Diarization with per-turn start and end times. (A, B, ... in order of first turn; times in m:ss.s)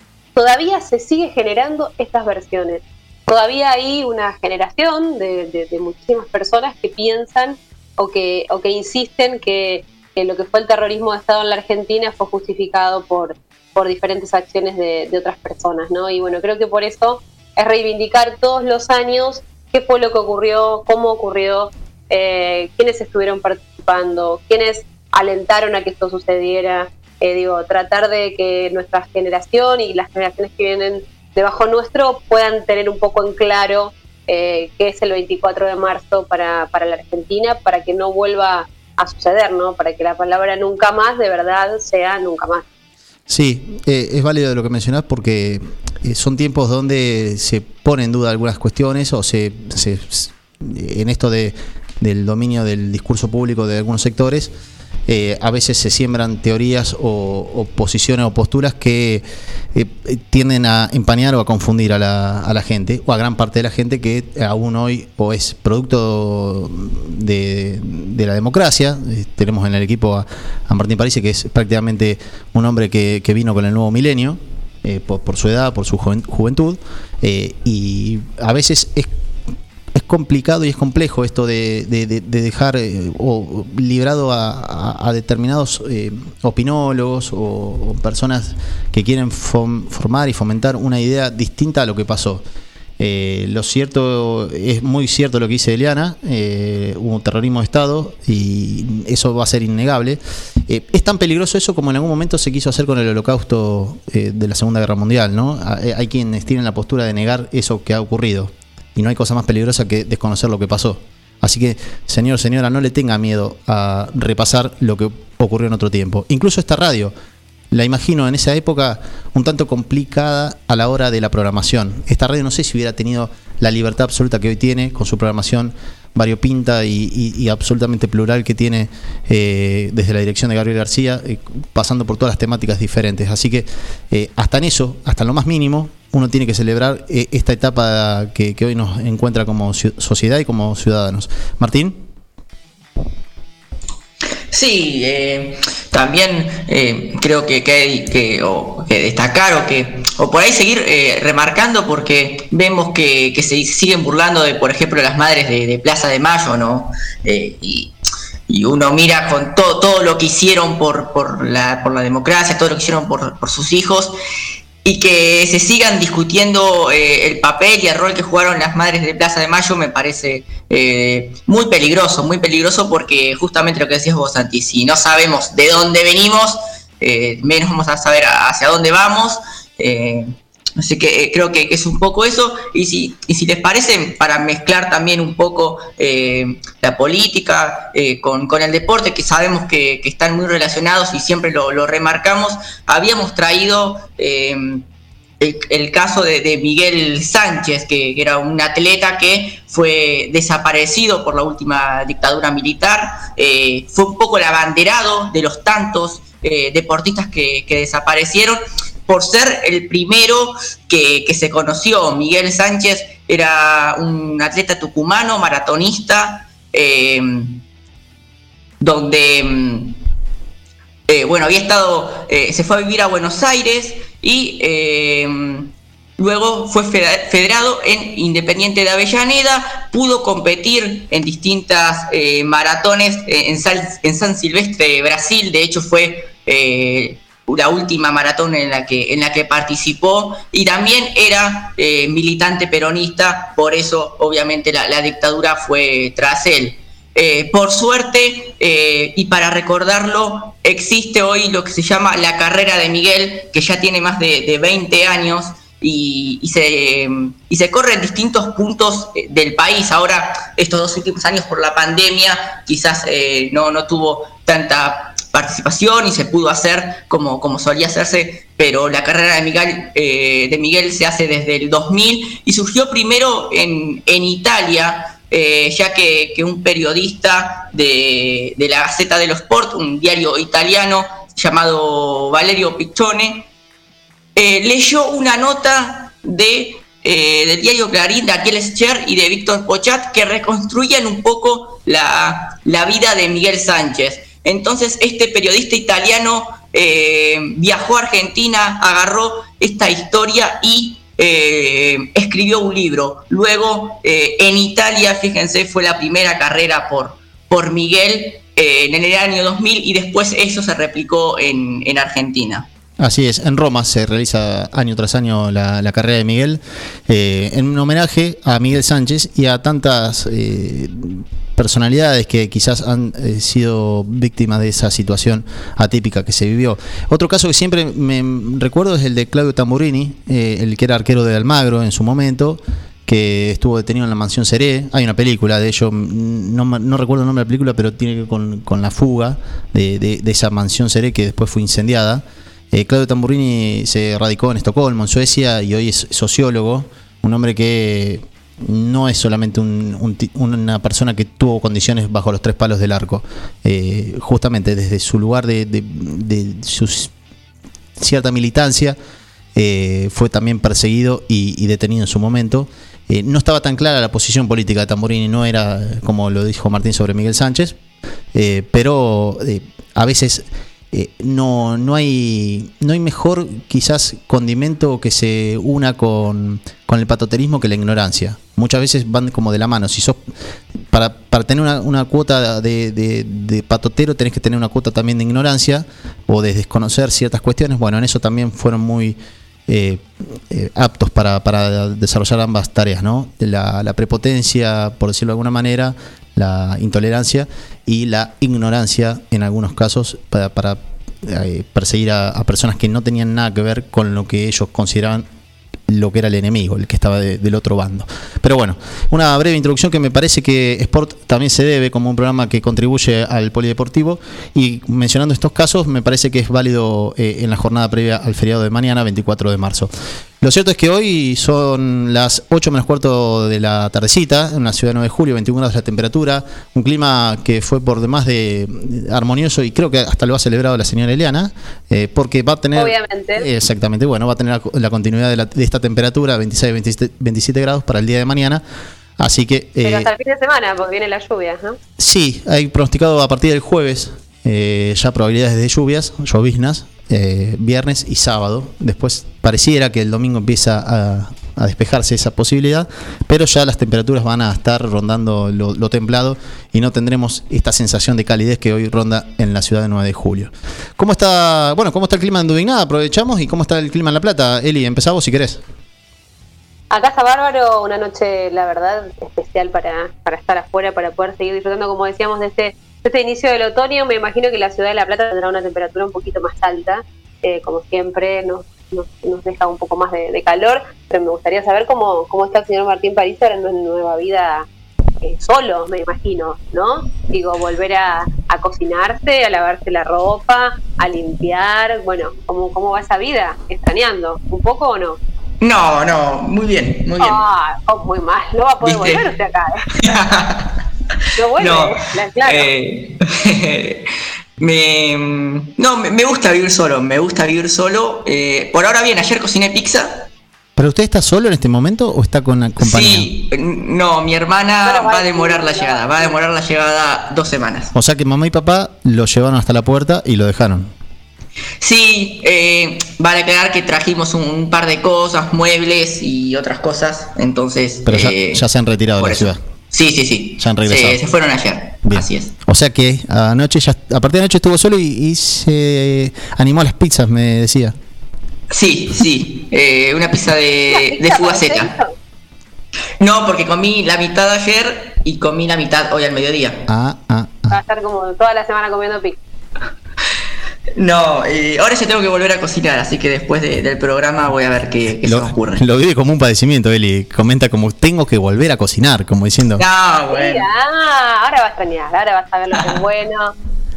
0:00.4-0:42.6 A
0:43.3-0:54.5 B
0:55.1-1:19.1 B
1:19.9-1:32.4 B
1:33.0-1:57.1 B
1:57.7-2:22.0 B
2:24.5-2:37.9 C
2:38.5-2:44.2 C
2:44.8-3:14.8 C
3:15.4-3:37.6 C
3:38.8-3:40.0 C
3:41.1-4:43.5 C
4:44.4-5:12.7 C
5:13.0-5:57.1 B
5:58.0-5:59.0 B
5:59.6-6:07.8 B
6:08.3-6:20.2 B
6:20.9-6:45.3 B
6:45.9-7:18.6 B
7:12.8-7:13.5 A
7:19.2-7:20.1 B
7:19.8-7:21.8 A
7:22.0-7:45.6 B
7:46.9-8:04.7 A
8:05.2-8:15.2 A
8:15.6-8:17.4 C
8:17.2-8:20.1 A
8:18.8-8:19.3 C
8:19.9-8:20.8 C
8:21.4-8:22.7 A
8:21.6-8:30.3 C
8:30.8-8:33.3 B
8:32.8-8:37.9 C
8:34.8-8:36.4 A
8:38.0-8:40.9 B
8:41.8-8:48.6 C
8:48.1-8:49.6 B
8:49.2-8:52.5 C
8:50.6-8:51.2 B
8:52.0-8:58.0 B
8:58.7-9:01.9 C
9:00.9-9:02.1 A
9:03.2-9:06.8 C
9:06.9-9:07.8 B
9:07.7-9:09.4 A
9:11.0-9:15.8 C
9:15.1-9:19.8 B
9:19.8-9:20.7 C
9:20.3-9:23.5 A